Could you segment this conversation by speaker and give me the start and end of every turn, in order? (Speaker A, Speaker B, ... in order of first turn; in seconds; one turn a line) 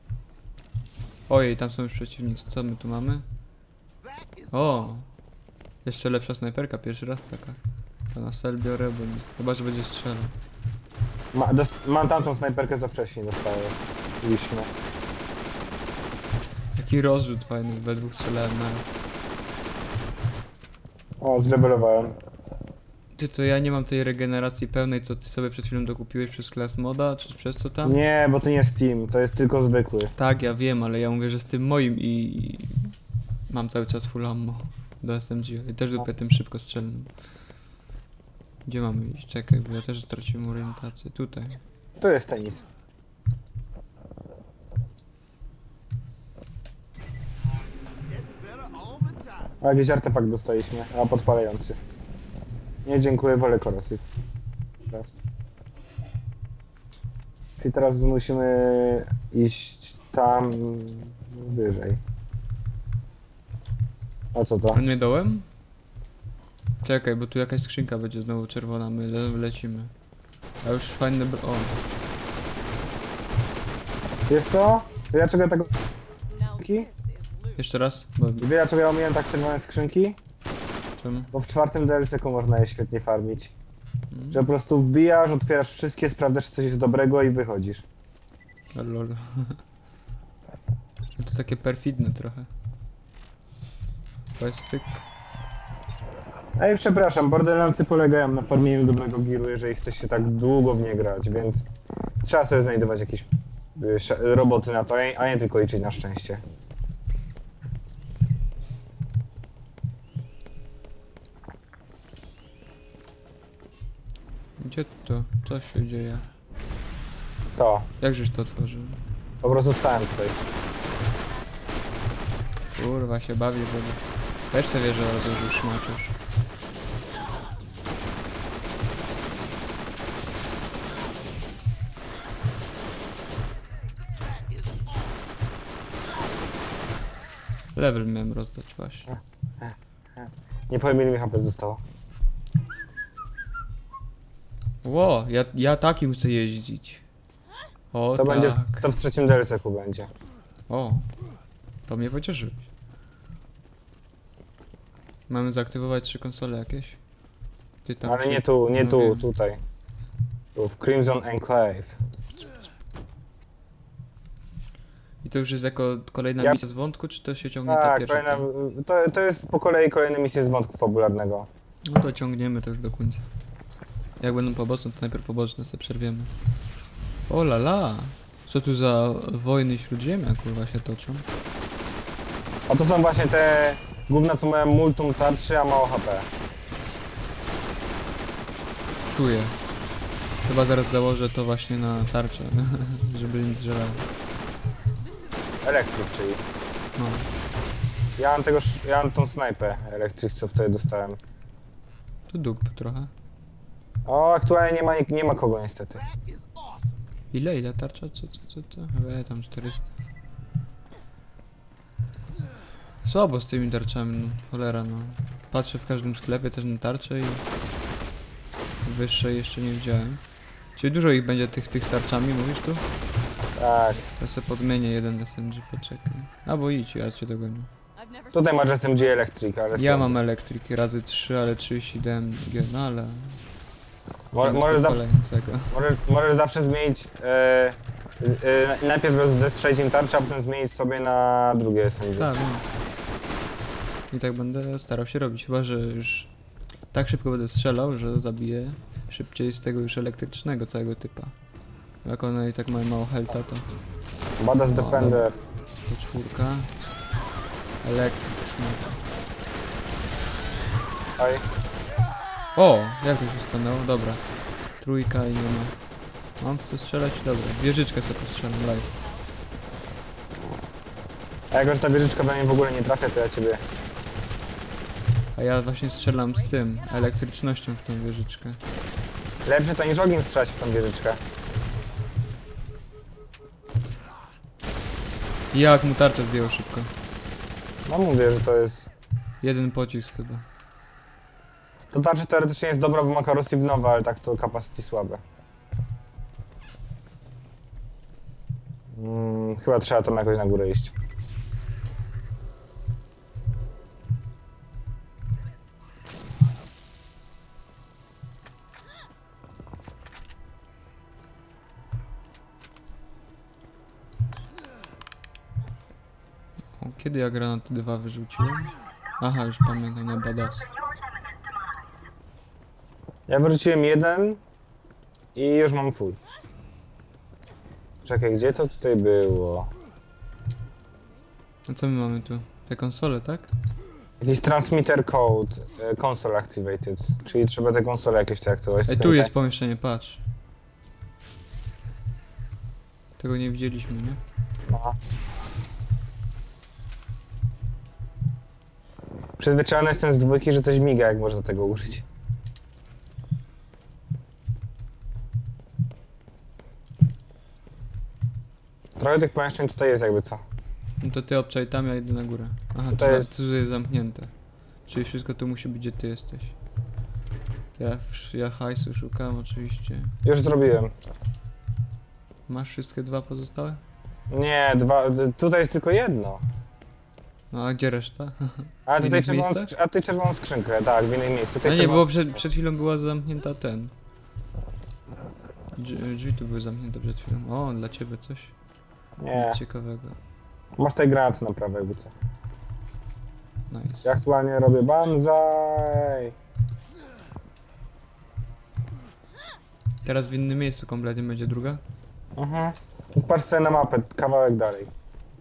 Speaker A: 1.3-3.2
Speaker A: 4.5-5.1
Speaker A: 5.8-7.6
Speaker A: 8.1-10.3
Speaker B: 11.3-14.7
Speaker A: 16.8-18.9
Speaker B: 21.2-22.2
Speaker A: 23.1-28.0
Speaker B: 27.8-30.1
Speaker A: 30.2-32.9
Speaker A: 33.5-37.1
Speaker A: 38.6-41.6
Speaker B: 42.0-42.6
Speaker B: 49.6-51.8
Speaker B: 52.9-54.1
Speaker B: 57.6-62.0
Speaker B: 64.3-64.8
Speaker A: 64.7-65.5
Speaker A: 66.8-69.9
Speaker A: 70.6-71.8
Speaker B: 74.3-75.7
Speaker C: 76.3-77.8
Speaker B: 76.6-76.9
Speaker A: 77.6-78.5
Speaker B: 78.4-80.2
Speaker A: 81.0-81.3
Speaker B: 81.3-83.5
Speaker A: 84.1-84.5
Speaker B: 84.3-87.8
Speaker A: 88.7-89.6
Speaker A: 91.2-92.5
Speaker A: 94.4-95.0
Speaker B: 96.6-101.7
Speaker B: 102.2-106.4
Speaker A: 114.6-116.3
Speaker B: 117.6-117.9
Speaker A: 118.0-119.0
Speaker B: 119.4-120.4
Speaker A: 122.8-126.2
Speaker A: 137.8-139.1
Speaker B: 139.6-141.8
Speaker A: 144.8-147.0
Speaker A: 147.9-148.9
Speaker B: 148.2-150.1
Speaker A: 150.7-151.1
Speaker A: 151.9-152.7
Speaker A: 155.3-157.0
Speaker A: 157.8-159.3
Speaker B: 158.1-159.6
Speaker B: 160.6-162.0
Speaker A: 165.2-168.5
Speaker B: 167.7-171.5
Speaker A: 171.8-173.3
Speaker A: 174.2-176.3
Speaker A: 177.3-181.3
Speaker B: 182.7-186.3
Speaker A: 189.1-189.6
Speaker A: 190.4-194.1
Speaker C: 195.0-196.1
Speaker B: 195.6-196.4
Speaker A: 197.0-197.3
Speaker B: 198.2-201.2
Speaker A: 202.3-203.1
Speaker B: 204.1-206.0
Speaker A: 207.3-209.9
Speaker A: 213.0-217.4
Speaker A: 218.8-220.2
Speaker A: 220.8-222.8
Speaker B: 223.6-224.0
Speaker A: 224.1-227.7
Speaker C: 227.9-229.0
Speaker B: 228.3-230.2
Speaker A: 229.7-233.4
Speaker B: 234.3-235.0
Speaker A: 234.4-235.8
Speaker B: 235.7-242.3
Speaker A: 242.2-242.7
Speaker A: 244.1-246.3
Speaker A: 246.9-251.3
Speaker A: 252.0-253.7
Speaker B: 254.4-255.3
Speaker A: 254.7-255.3
Speaker A: 255.9-256.7
Speaker A: 257.8-259.0
Speaker B: 261.2-261.4
Speaker A: 262.6-264.2
Speaker A: 264.8-265.8
Speaker A: 266.4-268.9
Speaker B: 271.5-273.6
Speaker A: 275.4-278.6
Speaker B: 279.4-281.2
Speaker A: 285.5-286.9
Speaker B: 287.9-288.9
Speaker A: 289.4-290.4
Speaker B: 291.9-295.2
Speaker B: 298.9-300.9
Speaker A: 316.8-320.7
Speaker B: 323.3-324.4
Speaker B: 325.4-326.2
Speaker B: 328.0-329.7
Speaker A: 331.7-333.5
Speaker B: 334.2-339.3
Speaker A: 338.9-340.2
Speaker A: 343.2-344.2
Speaker B: 344.7-345.0
Speaker B: 349.4-352.1
Speaker B: 359.0-360.4
Speaker A: 361.0-364.3
Speaker B: 362.9-363.3
Speaker A: 364.9-366.6
Speaker A: 367.8-370.1
Speaker B: 370.2-370.9
Speaker A: 372.5-373.8
Speaker B: 374.3-376.4
Speaker A: 377.5-379.7
Speaker B: 378.9-382.1
Speaker A: 381.6-383.9
Speaker A: 385.8-388.5
Speaker B: 389.2-389.6
Speaker A: 389.3-390.2
Speaker B: 390.8-392.1
Speaker A: 393.7-394.2
Speaker B: 394.0-396.4
Speaker A: 400.0-401.8
Speaker B: 402.4-404.9